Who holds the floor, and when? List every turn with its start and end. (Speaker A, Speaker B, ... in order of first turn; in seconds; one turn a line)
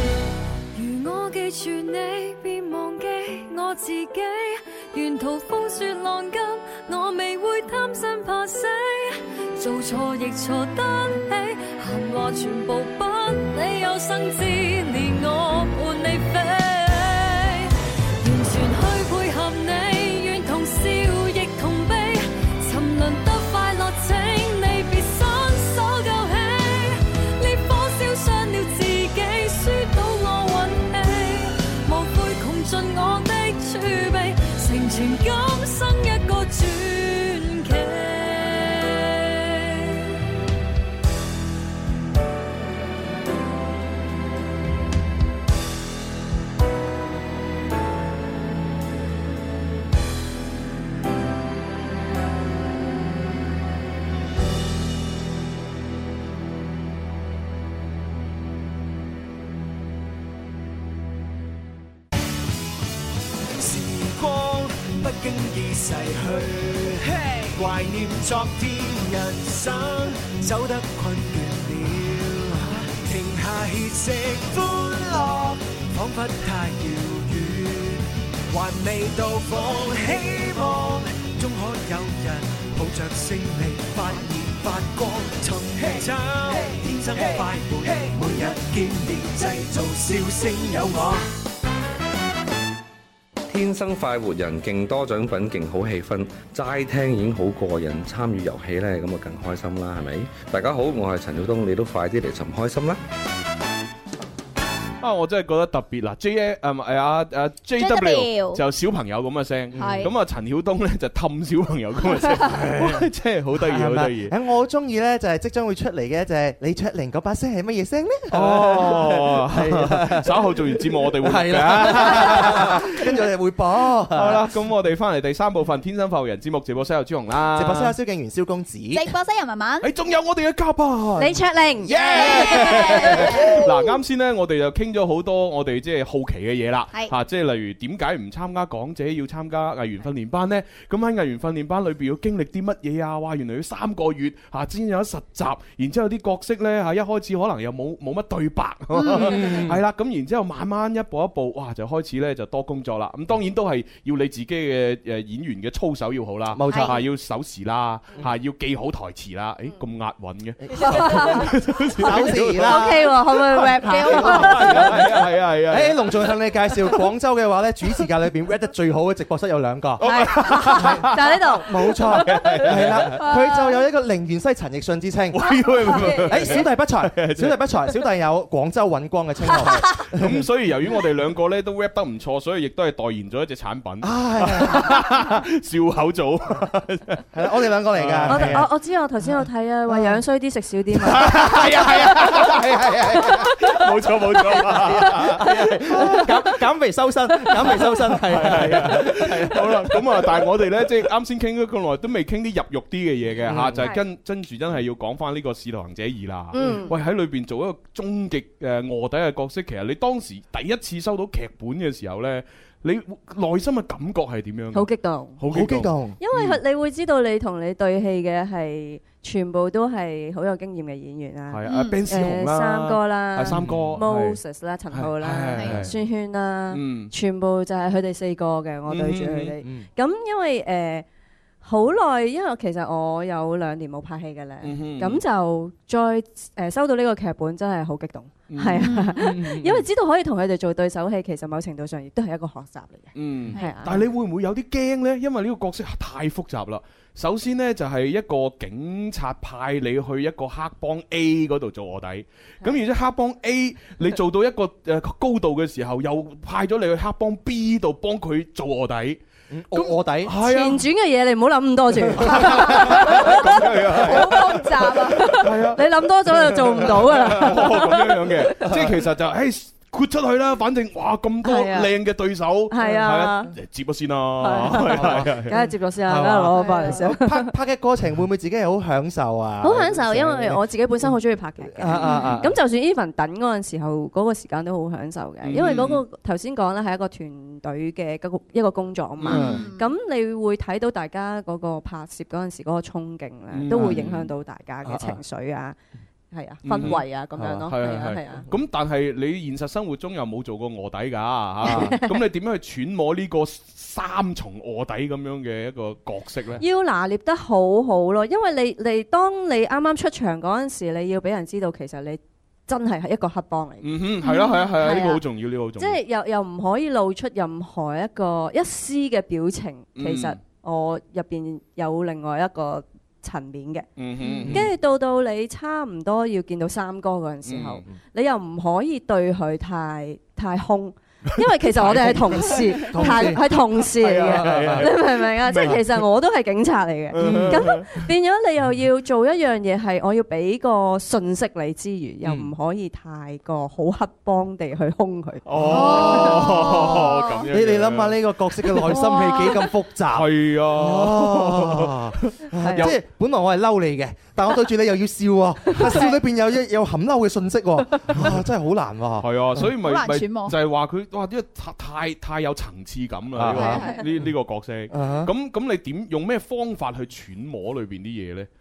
Speaker A: 0.7-40.0
Speaker B: 63.5-91.2
Speaker C: 93.5-103.0
Speaker D: 105.0-114.3
Speaker E: 107.8-108.6
Speaker F: 109.8-110.1
Speaker E: 109.8-110.1
Speaker F: 113.5-124.5
Speaker D: 118.3-122.9
Speaker D: 124.1-128.0
Speaker F: 127.5-129.1
Speaker E: 128.9-129.9
Speaker D: 129.8-166.4
Speaker G: 131.2-133.4
Speaker E: 132.0-133.8
Speaker E: 149.0-149.6
Speaker F: 149.1-149.8
Speaker F: 156.5-157.0
Speaker E: 156.7-157.0
Speaker F: 160.6-163.2
Speaker G: 160.8-165.1
Speaker E: 163.8-164.9
Speaker F: 163.9-180.5
Speaker D: 170.0-173.4
Speaker G: 170.0-172.9
Speaker D: 175.3-178.0
Speaker G: 175.8-176.7
Speaker D: 179.6-187.2
Speaker F: 184.0-185.4
Speaker F: 187.3-188.7
Speaker D: 187.9-188.7
Speaker G: 188.3-191.8
Speaker F: 189.2-190.2
Speaker D: 191.0-196.5
Speaker F: 191.2-193.7
Speaker F: 194.3-200.4
Speaker G: 194.5-195.1
Speaker D: 197.6-216.6
Speaker F: 203.4-203.9
Speaker G: 206.5-207.0
Speaker F: 206.6-206.9
Speaker G: 214.7-215.4
Speaker F: 215.5-216.2
Speaker G: 216.2-231.1
Speaker D: 221.5-224.4
Speaker E: 221.7-222.0
Speaker F: 223.5-224.0
Speaker D: 224.9-225.9
Speaker E: 225.5-225.8
Speaker D: 226.7-227.1
Speaker D: 228.9-229.6
Speaker F: 229.6-229.9
Speaker G: 231.6-244.0
Speaker D: 234.6-235.2
Speaker D: 238.5-239.6
Speaker E: 238.7-239.4
Speaker F: 239.4-239.8
Speaker D: 243.2-259.2
Speaker E: 243.5-243.9
Speaker F: 259.5-260.4
Speaker D: 259.7-260.9
Speaker G: 260.3-268.9
Speaker D: 262.1-275.6
Speaker F: 262.2-263.1
Speaker E: 264.1-265.2
Speaker G: 271.4-272.0
Speaker G: 272.7-273.6
Speaker G: 274.4-277.6
Speaker F: 274.7-281.1
Speaker E: 276.6-277.0
Speaker G: 279.6-295.8
Speaker F: 281.7-282.6
Speaker E: 282.0-282.4
Speaker D: 285.4-286.0
Speaker D: 289.2-289.6
Speaker E: 289.2-289.9
Speaker F: 289.3-289.7
Speaker D: 293.5-294.3
Speaker F: 293.7-294.0
Speaker E: 293.8-294.1
Speaker F: 294.8-295.2
Speaker G: 296.3-298.5
Speaker D: 296.6-297.1
Speaker F: 296.8-297.7
Speaker D: 297.6-306.6
Speaker F: 301.6-302.0
Speaker G: 301.6-302.2
Speaker G: 306.6-315.2
Speaker D: 313.8-316.0
Speaker E: 314.2-314.7
Speaker G: 315.8-323.9
Speaker D: 320.0-320.4
Speaker D: 324.0-324.7
Speaker E: 324.2-324.5
Speaker G: 324.5-346.9
Speaker D: 327.4-327.9
Speaker D: 331.7-336.1
Speaker F: 331.8-335.0
Speaker D: 337.1-338.0
Speaker F: 337.2-337.9
Speaker F: 342.2-342.5
Speaker D: 345.4-349.1
Speaker E: 345.7-347.1
Speaker F: 345.7-346.8
Speaker F: 347.5-359.7
Speaker G: 348.9-349.7
Speaker D: 350.1-353.0
Speaker G: 352.6-353.0
Speaker G: 355.7-356.1
Speaker D: 358.1-358.4
Speaker D: 359.2-368.5
Speaker E: 359.8-360.6
Speaker F: 363.4-363.9
Speaker E: 363.6-364.0
Speaker G: 363.6-364.0
Speaker F: 364.9-365.3